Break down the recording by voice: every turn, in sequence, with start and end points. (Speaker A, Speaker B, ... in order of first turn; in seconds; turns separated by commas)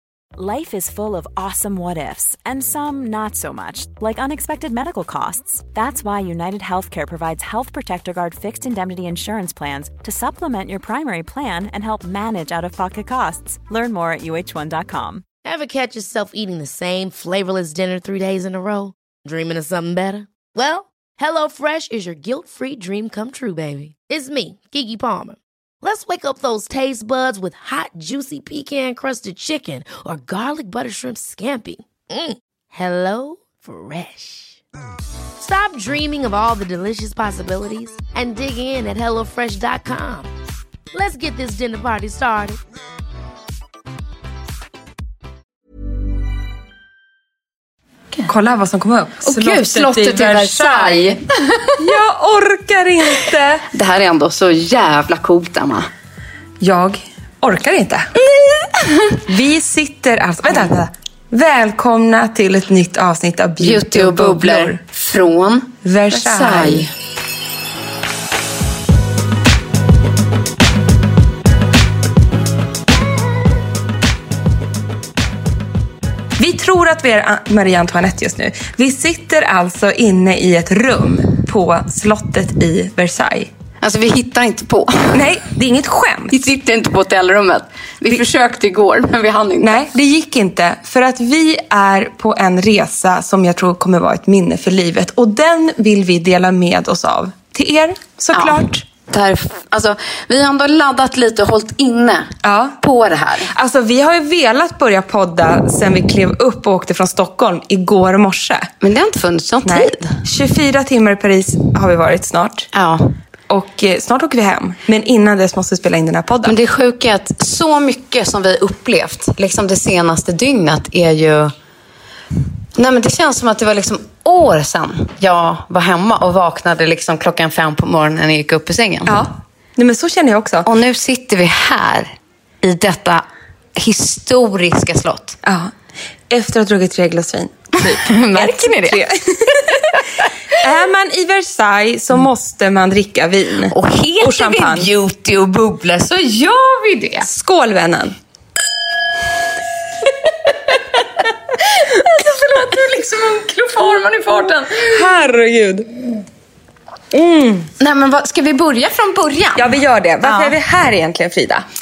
Speaker A: 0.4-15.2, Speaker B: 15.4-34.6, Speaker B: 35.4-40.3, Speaker B: 40.9-42.6, Speaker C: 48.3-51.2, Speaker D: 49.2-51.9, Speaker C: 51.8-53.7, Speaker D: 53.7-55.9, Speaker C: 56.6-58.1, Speaker D: 58.2-59.2, Speaker C: 59.2-64.8, Speaker D: 63.6-66.9, Speaker C: 65.8-66.9, Speaker C: 76.4-83.5, Speaker D: 83.8-85.3, Speaker C: 85.1-86.4, Speaker D: 86.3-89.8, Speaker C: 89.6-98.8, Speaker D: 98.3-103.5, Speaker C: 102.4-102.8, Speaker C: 103.5-108.7, Speaker D: 108.8-110.2, Speaker C: 109.6-112.7, Speaker D: 112.7-113.1, Speaker C: 113.5-116.5, Speaker D: 116.5-121.5, Speaker D: 122.8-129.2, Speaker C: 129.1-130.7, Speaker D: 130.6-133.2, Speaker D: 133.8-135.4, Speaker C: 135.4-135.7, Speaker C: 136.3-139.9, Speaker D: 137.8-139.0, Speaker C: 140.5-144.9, Speaker D: 143.7-147.3, Speaker C: 147.2-148.1, Speaker D: 151.8-154.9, Speaker C: 151.9-153.0, Speaker C: 154.6-155.9, Speaker C: 157.1-157.7, Speaker D: 157.8-160.6, Speaker C: 159.6-161.6